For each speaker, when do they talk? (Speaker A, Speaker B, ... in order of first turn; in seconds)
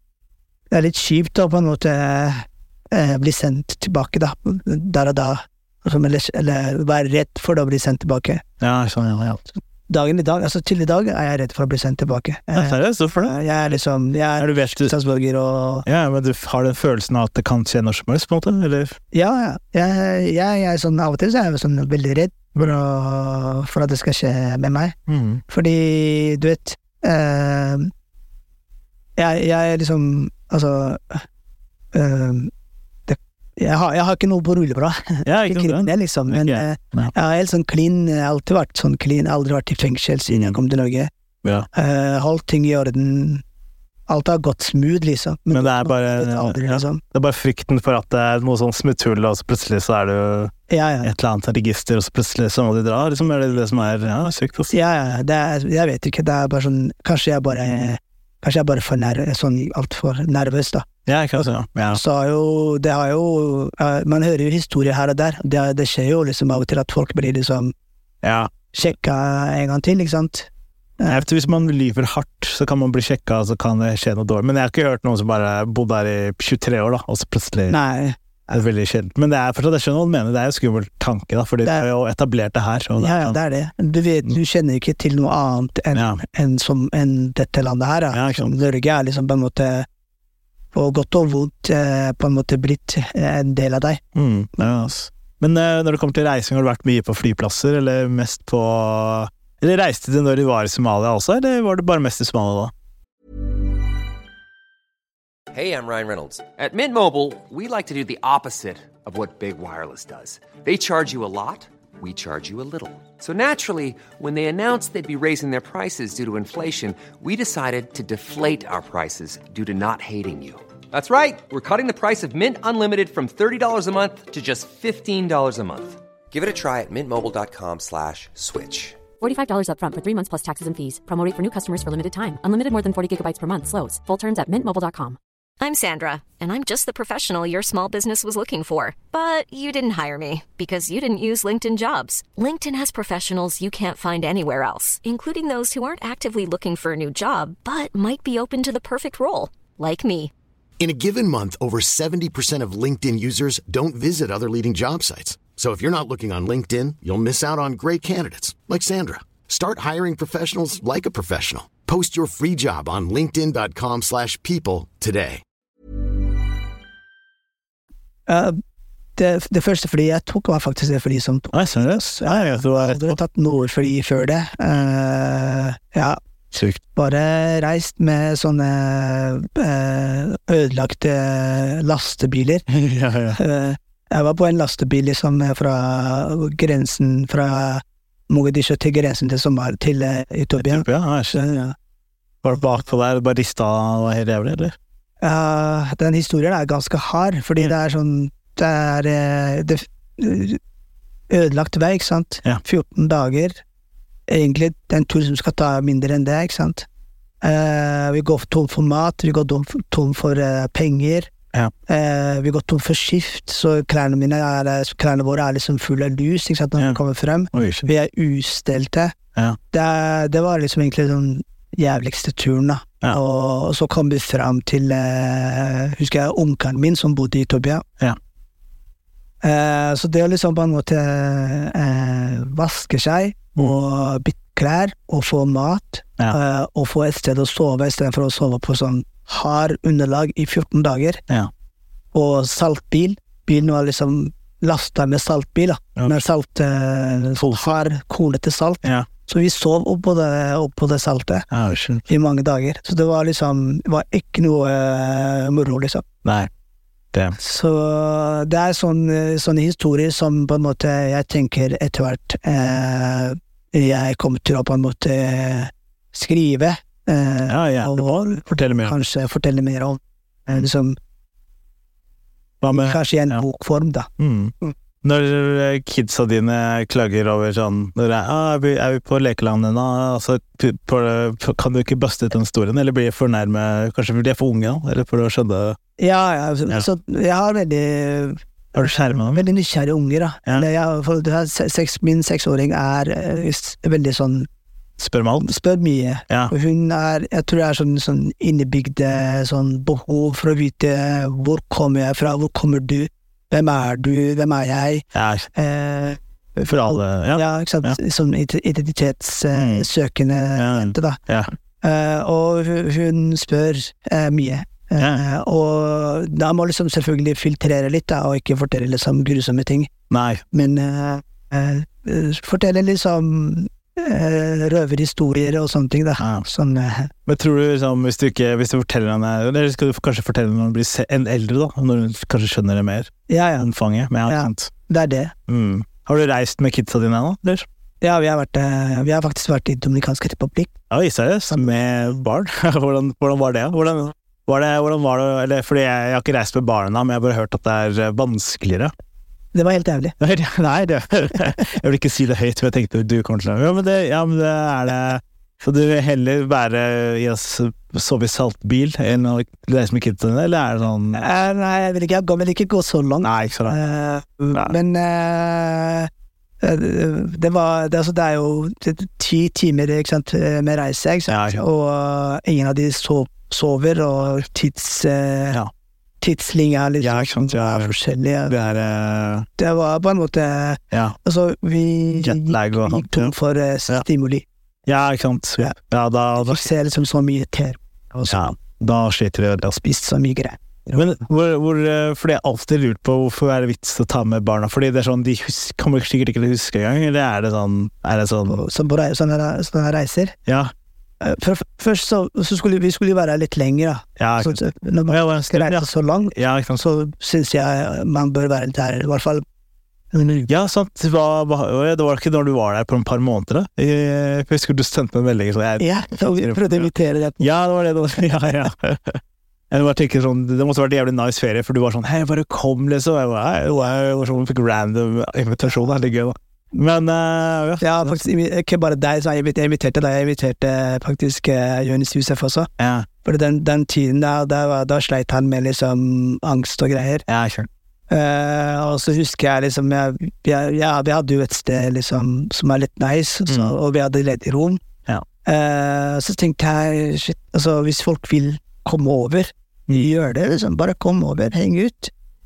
Speaker A: 0.7-8.4, 9.9-15.9, 19.1-25.0, 25.5-27.9, 29.2-31.2, 31.9-32.5, 33.1-41.1, 41.7-43.4, 44.1-47.0, 50.7-51.1, 54.7-60.9, 61.9-67.7, 68.7-71.2, 77.7-78.6, 83.0-89.9, 90.7-94.0, 168.3-168.6, 169.2-176.2, 176.9-182.7, 183.3-191.8, 195.2-200.6, 201.3-203.6, 204.3-206.9, 207.4-211.3, 211.9-219.1, 219.7-227.8, 229.4-241.2, 242.1-251.5, 252.1-256.1, 257.4-271.0, 272.7-274.1, 286.0-294.5, 295.4-306.2, 307.3-311.2, 311.8-319.9, 320.5-327.1, 333.3-333.7, 334.3-335.3, 338.0-340.7, 349.5-350.1, 361.1-366.1, 366.6-375.6, 376.2-378.5, 379.6-384.4, 386.4-388.5, 389.8-391.1, 398.5-400.4, 401.2-409.4, 410.1-410.5, 415.8-417.5, 427.8-432.7, 433.2-437.2, 438.1-444.8, 445.4-452.1
Speaker B: 8.6-9.4, 12.6-13.3, 14.4-14.9, 15.8-19.0, 25.1-25.4, 35.2-37.1, 40.3-40.6, 45.5-54.7, 61.1-62.0, 68.2-68.5, 71.1-77.8, 78.5-83.4, 85.9-86.2, 88.1-88.5, 94.2-102.7, 171.5-173.2, 176.5-176.8, 182.7-183.4, 190.6-191.4, 192.4-194.8, 217.5-217.9, 246.0-246.2, 247.4-247.7, 248.8-249.1, 251.5-252.1, 256.2-256.5, 267.5-268.9, 272.6-273.4, 274.2-285.8, 288.7-289.4, 295.0-295.5, 305.1-305.5, 306.6-308.0, 309.5-309.9, 310.6-311.5, 315.0-315.2, 320.1-320.4, 326.2-326.4, 327.3-334.7, 335.5-337.7, 340.9-348.9, 350.2-361.2, 363.2-363.8, 371.3-371.6, 377.0-377.9, 378.5-379.5, 382.2-383.3, 384.9-386.7, 388.3-389.8, 390.9-398.6, 400.5-400.7, 404.2-406.8, 410.5-428.2, 432.8-433.1, 437.3-437.7, 443.5-443.7
Speaker C: 105.5-129.0
Speaker D: 129.2-135.2
Speaker E: 135.6-150.3
Speaker F: 150.8-165.4